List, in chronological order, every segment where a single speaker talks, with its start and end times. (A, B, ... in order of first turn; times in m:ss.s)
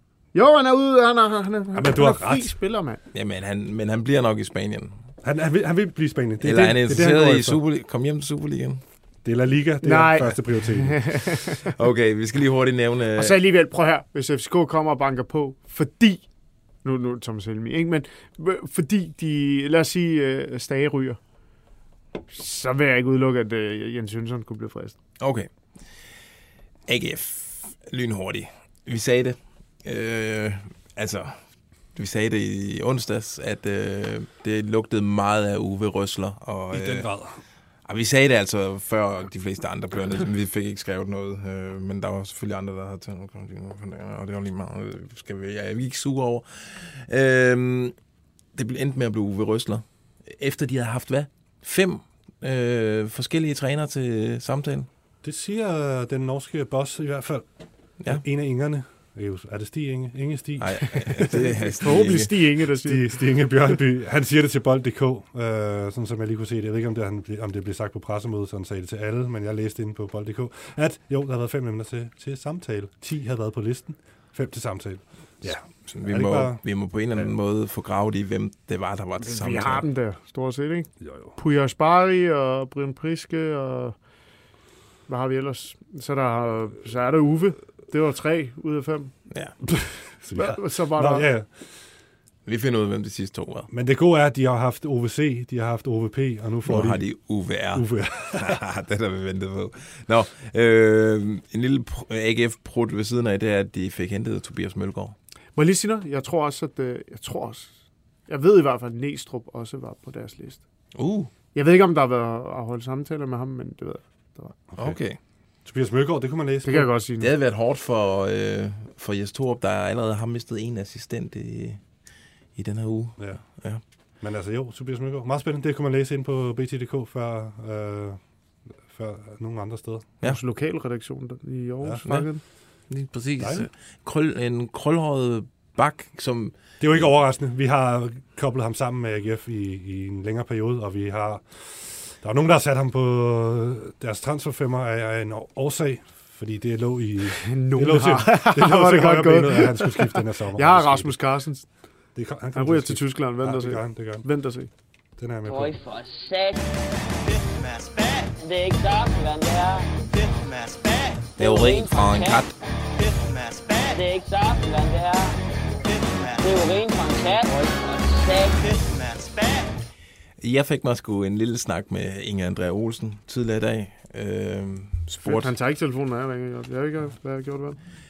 0:00.3-0:03.0 A
0:01.7-0:02.5 B
0:03.1-0:05.0 C
0:05.2-0:07.6 B
0:06.4-0:08.8 C
0:09.2-0:11.3 B
0:09.8-0:11.5 A
0:11.8-0:13.4 C
0:13.2-0:16.3 A
0:16.8-0:21.2 A
0:22.3-0:25.0 A
0:25.2-0:25.5 C
0:26.9-0:31.4 C
0:31.9-0:37.1 C
0:36.7-0:37.4 B
0:37.9-0:47.9 C
0:48.5-0:54.9 C
0:55.2-0:57.5 B
0:58.0-1:01.5 B
1:00.6-1:02.4 C
1:01.8-1:03.8 A
1:02.8-1:17.3 B
1:15.8-1:19.8 C
1:19.2-1:24.0 A
1:21.0-1:21.3 B
1:25.1-1:29.2 A
1:29.7-1:31.7 B
1:30.4-1:31.3 A
1:32.4-1:33.7 C
1:33.7-1:38.6 B
1:36.6-1:45.2 C
1:45.6-1:47.8 A
1:48.3-1:50.6 A
1:51.0-1:51.3 C
1:51.5-1:54.6 A
1:54.7-1:55.0 B
1:54.8-1:55.2 C
1:55.6-1:56.9 B
1:56.6-1:57.3 A
1:57.2-2:01.8 C
2:02.6-2:03.8 C
2:03.2-2:03.4 B
2:04.2-2:08.2 B
2:08.8-2:10.1 B
2:10.2-2:12.4 A
2:12.9-2:17.1 C
2:13.4-2:13.7 B
2:16.8-2:31.4 B
2:27.5-2:31.7 A
2:32.1-2:34.3 B
2:32.5-2:34.7 A
2:35.2-2:35.8 B
2:35.4-2:36.7 D
2:38.4-2:39.9 D
2:41.4-2:42.5 C
2:41.4-2:42.5 D
2:43.9-2:45.4 D
2:46.4-2:48.8 D
2:50.4-2:55.5 C
2:55.2-2:57.8 A